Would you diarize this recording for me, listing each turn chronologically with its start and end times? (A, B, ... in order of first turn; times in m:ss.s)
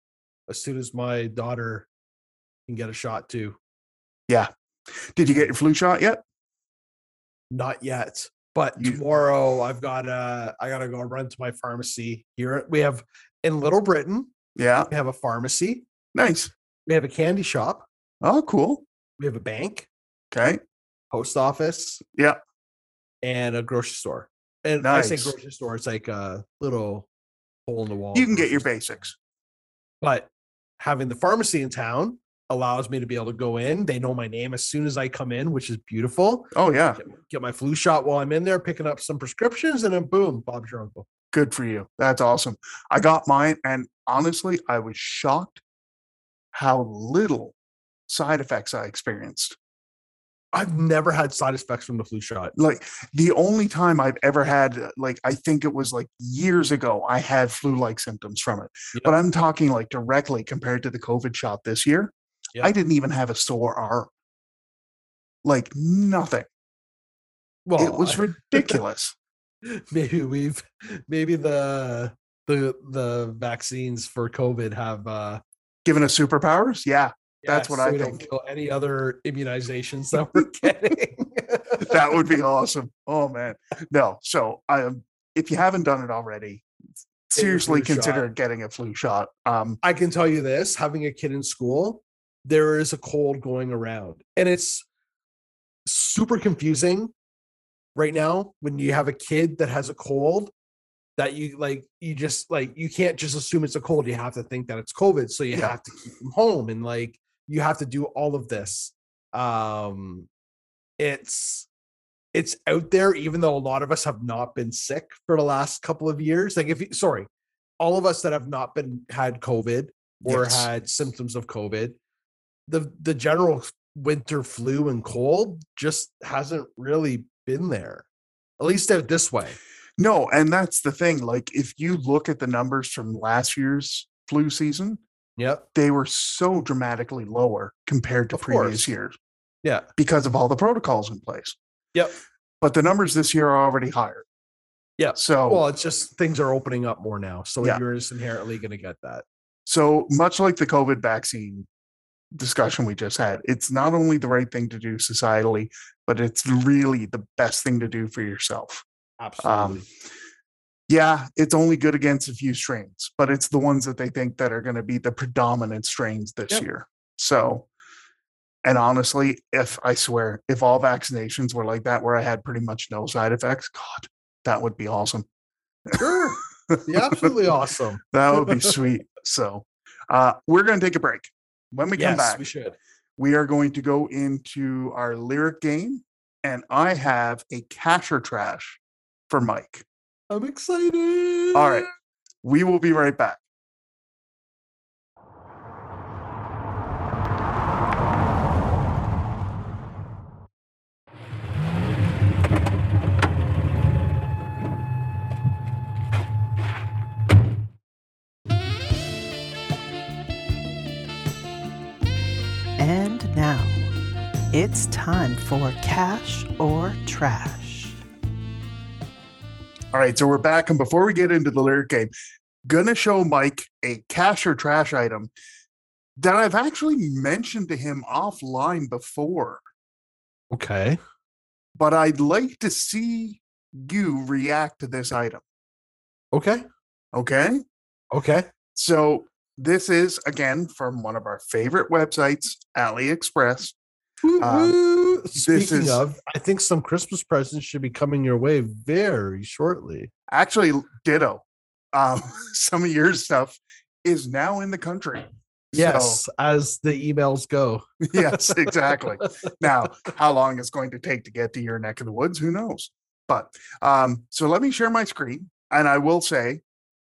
0:00.5-0:01.9 A
0:02.7-0:03.6 A
0:05.2-0:06.2 B
0:07.5-0:14.3 A
0:14.6-0:14.9 B
0:14.9-0:15.8 A
0:16.2-0:16.5 B
0:16.9-0:17.9 A
0:18.2-0:18.8 B
0:19.2-0:19.9 A
0:20.3-0:20.6 B
0:21.1-0:22.0 A
0:23.2-0:27.1 A
0:24.8-0:25.4 B
0:27.7-0:28.7 A
0:28.1-0:29.2 B
0:30.0-0:41.1 A
0:36.5-0:37.0 B
0:41.3-0:45.6 B
0:46.5-0:47.6 B
0:48.1-0:49.6 B
0:50.5-0:52.5 A
0:52.6-1:04.1 B
1:05.4-1:06.5 B
1:07.7-1:08.8 A
1:07.8-1:09.2 B
1:09.6-1:15.4 A
1:15.8-1:18.3 B
1:17.4-1:21.9 A
1:20.4-1:20.7 B
1:21.8-1:26.6 B
1:27.3-1:29.8 B
1:27.4-1:28.3 A
1:29.8-1:34.8 A
1:35.9-1:37.1 A
1:38.0-1:40.5 A
1:41.2-1:50.3 A
1:51.0-1:51.7 A
1:52.3-1:57.3 A
1:57.8-2:02.0 A
2:00.2-2:00.7 B
2:02.7-2:08.1 A
2:08.6-2:09.6 A
2:10.0-2:15.0 B
2:15.4-2:15.7 A
2:15.8-2:19.2 B
2:18.3-2:18.9 A
2:20.0-2:21.6 B
2:22.6-2:24.2 B
2:25.0-2:29.2 A
2:25.2-2:25.7 B
2:29.7-2:31.7 B
2:32.4-2:38.8 B
2:39.2-2:39.9 A
2:39.4-2:39.9 B
2:40.9-2:47.7 B
2:48.6-2:55.3 B
2:56.0-2:58.7 A
2:56.7-2:57.3 B
2:58.1-3:02.5 B
3:02.0-3:02.8 A
3:03.2-3:09.8 B
3:10.3-3:11.9 A
3:11.5-3:11.9 B
3:12.4-3:13.4 B
3:32.8-3:33.9 C
3:34.5-3:38.0 C
3:39.9-3:42.1 B
3:42.7-3:45.3 B
3:46.2-3:49.6 B
3:50.5-3:51.0 A
3:51.8-3:55.4 B
3:56.3-3:56.6 A
3:57.1-3:57.6 B
3:58.1-3:58.5 A
3:58.8-4:03.8 B
4:04.2-4:10.1 A
4:04.4-4:04.8 B
4:05.4-4:06.0 B
4:10.3-4:16.2 B
4:15.7-4:19.3 A
4:18.1-4:26.6 B